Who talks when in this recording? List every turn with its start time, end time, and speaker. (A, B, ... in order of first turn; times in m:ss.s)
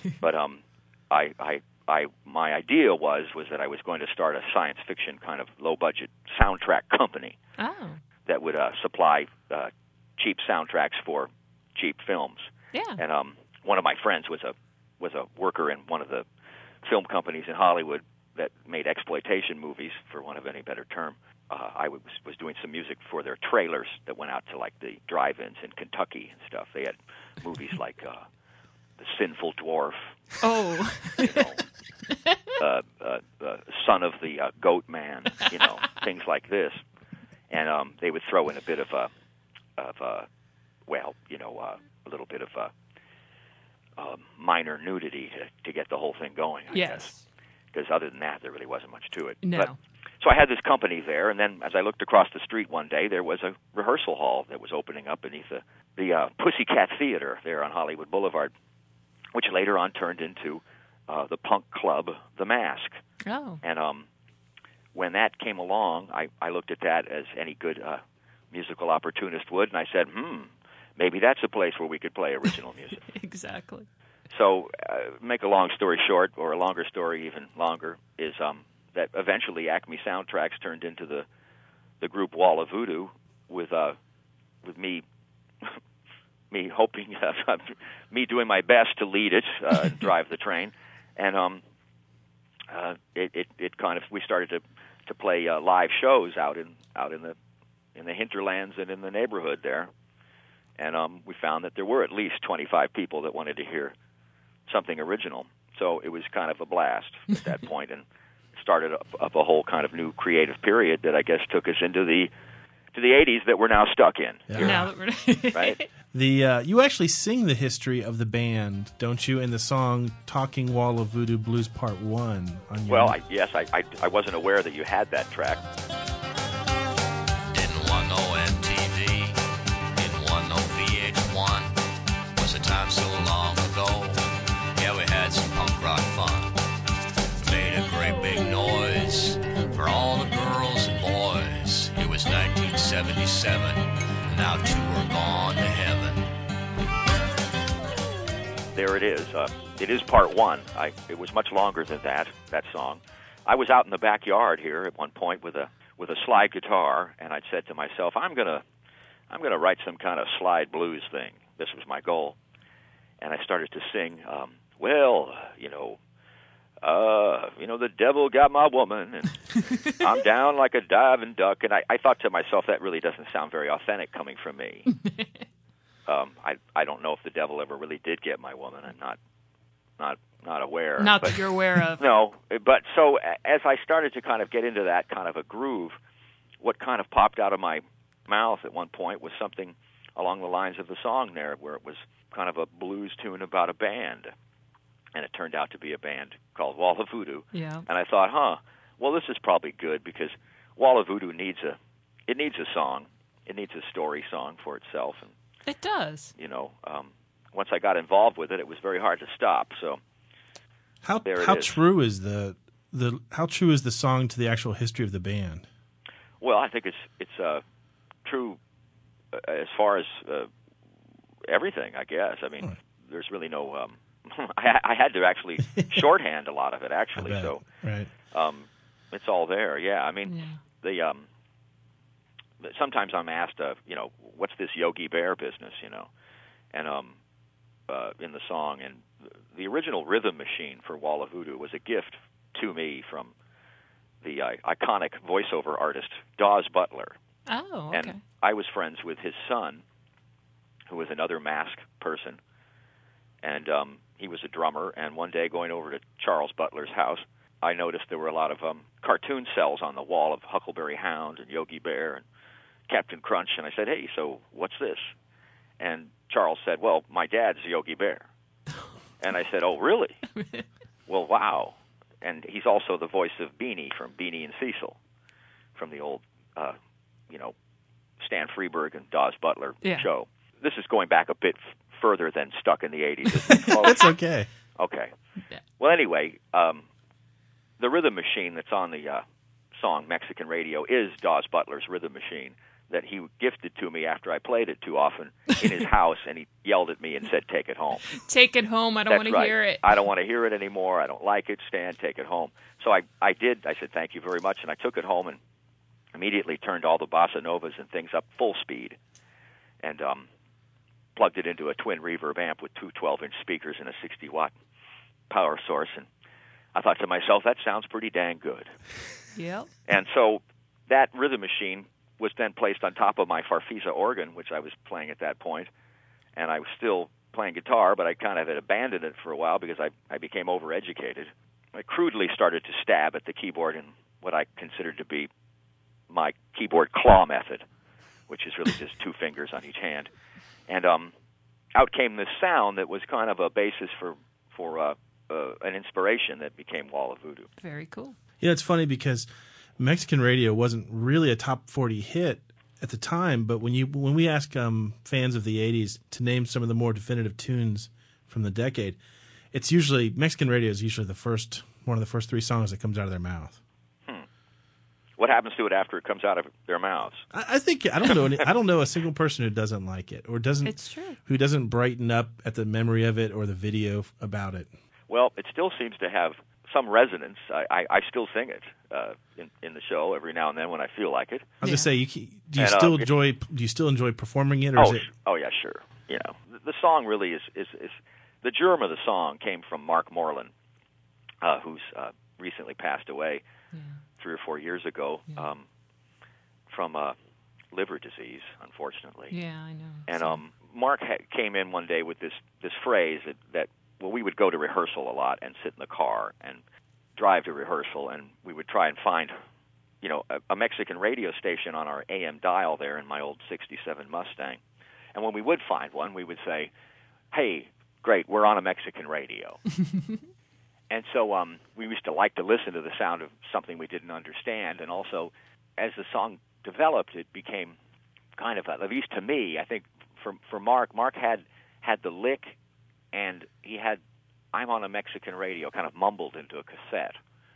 0:00.2-0:07.4 A
0:07.6-0:08.0 B
0:08.2-0:16.2 A
0:12.7-0:13.0 B
0:16.8-0:28.2 A
0:29.0-0:30.2 A
0:30.4-0:31.4 B
0:31.2-0:31.6 A
0:32.6-0:36.8 A
0:37.5-0:39.1 A
0:39.8-0:40.3 A
0:40.9-0:42.7 A
0:44.0-0:47.1 A
0:46.7-0:47.2 B
0:47.7-0:58.5 A
0:49.4-0:49.8 B
0:59.3-1:03.0 A
1:03.2-1:03.6 B
1:03.6-1:04.1 A
1:04.9-1:08.0 A
1:08.5-1:13.0 A
1:13.1-1:13.9 B
1:14.3-1:21.2 A
1:22.0-1:24.0 A
1:24.6-1:25.0 A
1:26.5-1:31.6 A
1:32.7-1:37.3 A
1:38.0-1:39.9 A
1:40.8-1:43.9 A
1:44.7-1:52.3 A
1:52.9-1:54.8 A
1:54.5-1:54.9 C
1:54.6-1:55.9 B
1:55.5-1:55.8 A
1:56.1-2:03.2 C
2:02.9-2:05.6 A
2:07.5-2:09.4 D
2:10.0-2:11.7 D
2:12.4-2:14.2 D
2:14.8-2:16.6 D
2:17.4-2:26.2 D
2:28.7-2:38.6 A
2:39.3-2:42.4 A
2:43.2-2:46.0 A
2:46.8-2:54.9 A
2:56.1-2:59.2 A
3:00.0-3:01.4 A
3:01.0-3:02.0 B
3:02.0-3:06.0 A
3:06.6-3:14.3 A
3:15.1-3:25.3 A
3:17.5-3:17.8 B
3:25.7-3:26.3 B
3:26.4-3:30.0 A
3:31.0-3:35.6 C
3:31.2-3:31.8 A
3:36.4-3:37.6 A
3:38.2-3:38.6 A
3:39.3-3:40.5 A
3:41.5-3:47.6 A
3:47.2-3:48.1 C
3:48.3-3:51.3 A
3:50.3-3:50.6 B
3:52.6-3:56.1 A
3:56.7-3:57.2 A
3:57.9-4:03.3 A
4:04.2-4:07.1 A
4:07.5-4:08.2 B
4:07.9-4:09.8 A
4:10.9-4:12.4 A
4:13.4-4:22.2 A
4:22.9-4:25.1 A
4:25.8-4:28.2 A
4:29.2-4:30.2 A
4:31.1-4:35.0 A
4:35.8-4:36.8 A
4:38.2-4:44.0 A
4:43.8-4:44.5 C
4:44.8-4:45.1 A
4:45.8-4:46.8 A
4:47.8-4:49.2 A
4:49.8-4:58.0 A
4:58.1-4:59.9 B
4:59.1-5:05.4 A
5:06.1-5:09.0 A
5:09.8-5:10.3 A
5:11.2-5:14.5 A
5:15.3-5:16.1 A
5:16.7-5:18.7 A
5:19.3-5:19.7 B
5:19.9-5:25.7 A
5:26.4-5:35.3 A
5:36.1-5:37.6 A
5:38.3-5:40.1 A
5:40.7-5:41.1 A
5:41.7-5:47.5 A
5:47.6-5:48.2 B
5:48.4-5:49.3 C
5:49.8-5:59.0 C
5:59.5-6:03.6 C
6:05.2-6:07.2 A
6:07.3-6:14.7 C
6:10.6-6:11.2 B
6:15.1-6:21.4 A
6:21.6-6:25.0 C
6:21.6-6:21.9 B
6:22.6-6:23.1 A
6:24.8-6:30.5 A
6:31.4-6:33.4 A
6:33.7-6:34.0 B
6:34.2-6:35.6 A
6:36.7-6:37.1 A
6:37.7-6:39.4 A
6:39.3-6:40.4 B
6:40.1-6:46.6 A
6:47.2-6:49.3 A
6:50.0-6:54.6 A
6:55.1-6:56.7 A
6:57.3-6:59.6 A
7:00.9-7:07.8 A
7:08.4-7:12.5 A
7:13.1-7:14.0 A
7:14.5-7:17.2 A